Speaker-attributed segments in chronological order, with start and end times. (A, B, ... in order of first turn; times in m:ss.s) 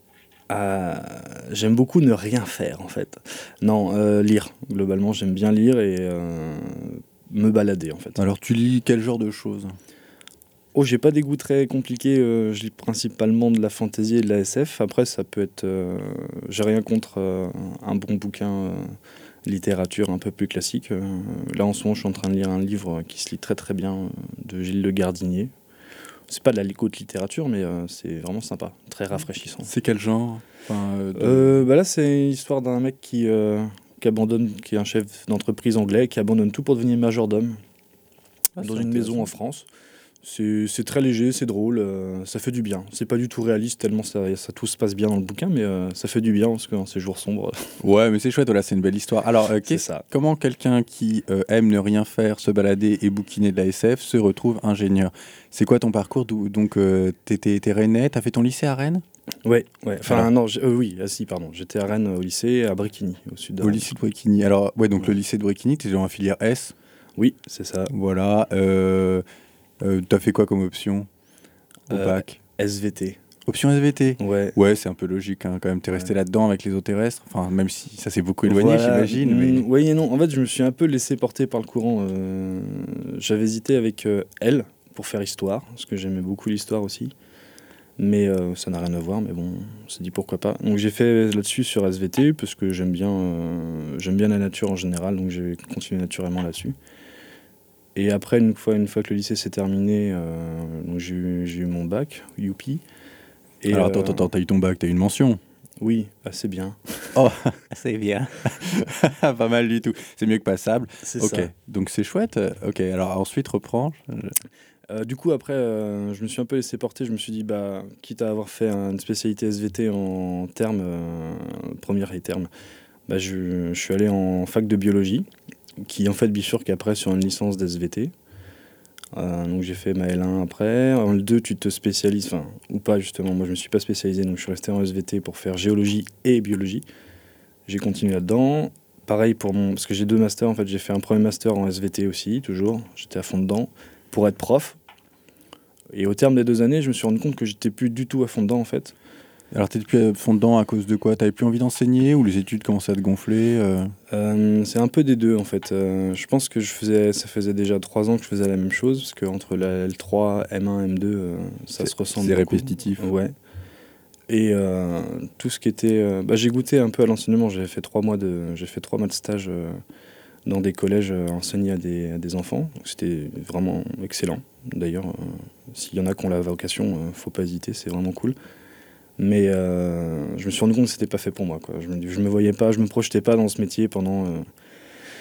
0:00.5-0:08.2 A
0:08.2-0:09.8 B
0:10.7-0:25.5 A
0:26.3-0:29.7 A
0:29.6-0:31.6 B
0:31.1-0:37.6 A
0:38.6-0:39.3 B
0:38.6-0:39.6 A
0:40.2-0:47.7 A
0:47.8-0:59.0 B
0:49.6-0:50.0 A
0:59.4-1:03.9 A
1:03.6-1:06.7 B
1:07.2-1:07.9 A
1:07.9-1:09.2 B
1:09.8-1:11.1 B
1:11.9-1:12.4 B
1:11.9-1:13.2 A
1:13.4-1:19.6 B
1:14.2-1:14.6 A
1:18.4-1:27.1 A
1:28.0-1:36.8 A
1:37.9-1:42.8 A
1:43.6-1:44.3 A
1:43.7-1:45.4 B
1:45.8-1:47.2 A
1:47.1-1:54.3 B
1:51.0-1:51.5 A
1:54.9-2:02.5 A
2:03.1-2:05.2 A
2:05.8-2:08.1 A
2:09.1-2:16.8 A
2:17.7-2:24.8 A
2:25.9-2:28.9 A
2:29.5-2:33.9 B
2:34.1-2:43.3 A
2:41.8-2:43.1 B
2:44.3-2:49.8 A
2:50.4-2:58.4 A
2:59.2-3:04.4 A